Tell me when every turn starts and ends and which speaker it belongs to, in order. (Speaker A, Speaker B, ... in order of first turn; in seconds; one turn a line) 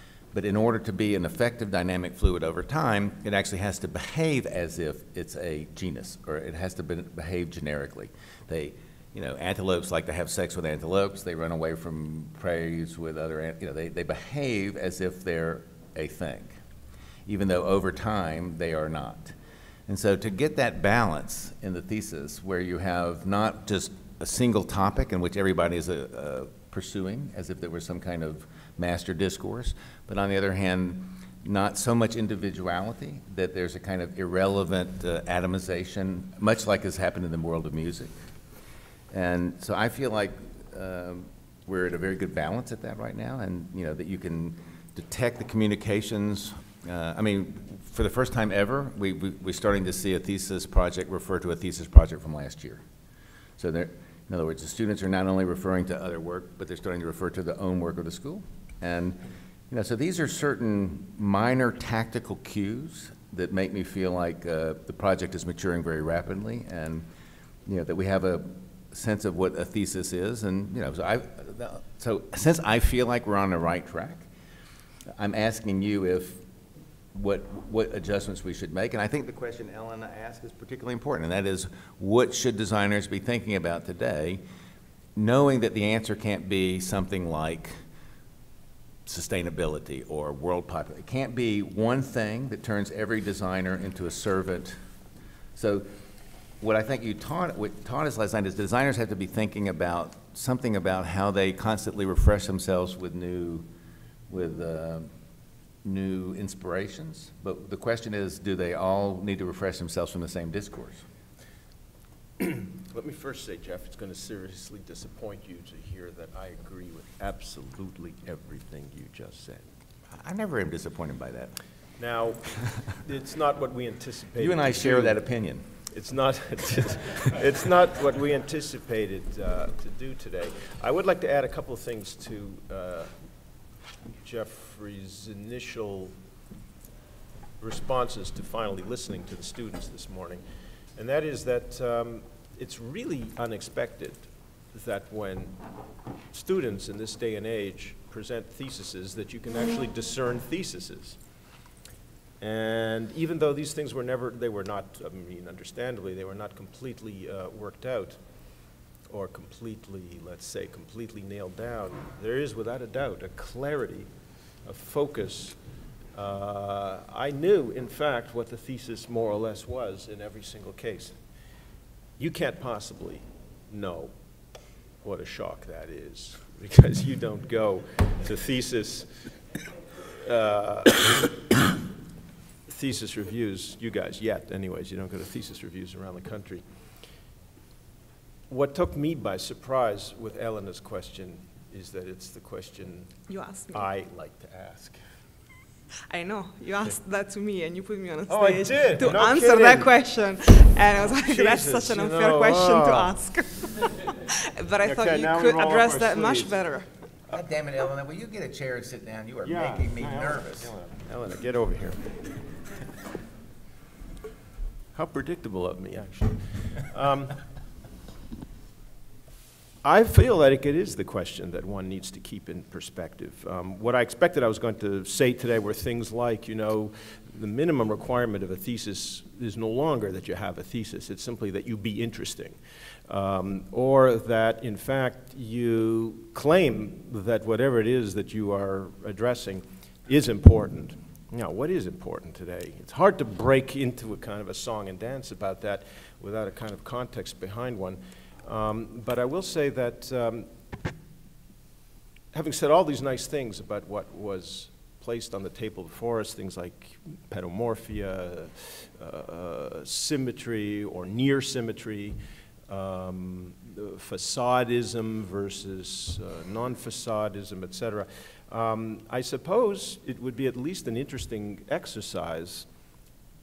Speaker A: 0.3-16.6
Speaker A: 17.3-19.3
Speaker A: 19.9-38.1
Speaker A: 39.1-52.8
Speaker A: 53.6-67.0
Speaker A: 67.7-74.3
Speaker A: 75.1-76.4
Speaker A: 77.1-84.4
Speaker A: 85.2-87.7
Speaker A: 89.0-94.8
Speaker A: 95.5-95.8
Speaker A: 96.6-103.6
Speaker A: 104.3-105.1
Speaker A: 105.8-111.0
Speaker B: 112.4-119.7
Speaker A: 120.1-121.5
Speaker B: 122.0-125.2
Speaker A: 124.3-125.6
Speaker B: 125.9-133.1
Speaker B: 134.2-136.1
Speaker B: 137.6-140.4
Speaker B: 140.9-145.6
Speaker B: 146.3-151.2
Speaker B: 152.4-158.2
Speaker B: 159.1-164.1
Speaker B: 164.6-165.6
Speaker B: 166.1-171.2
Speaker B: 172.2-174.1
Speaker B: 175.0-179.3
Speaker B: 180.2-181.3
Speaker B: 182.7-186.6
Speaker B: 188.5-193.2
Speaker C: 193.3-193.9
Speaker B: 193.7-195.0
Speaker C: 196.1-206.9
Speaker B: 198.3-199.9
Speaker B: 201.2-203.1
Speaker B: 204.8-206.6
Speaker A: 207.3-210.7
Speaker B: 209.4-212.2
Speaker B: 214.9-217.4
Speaker B: 219.8-250.5
Speaker B: 252.3-262.2
Speaker B: 262.7-272.7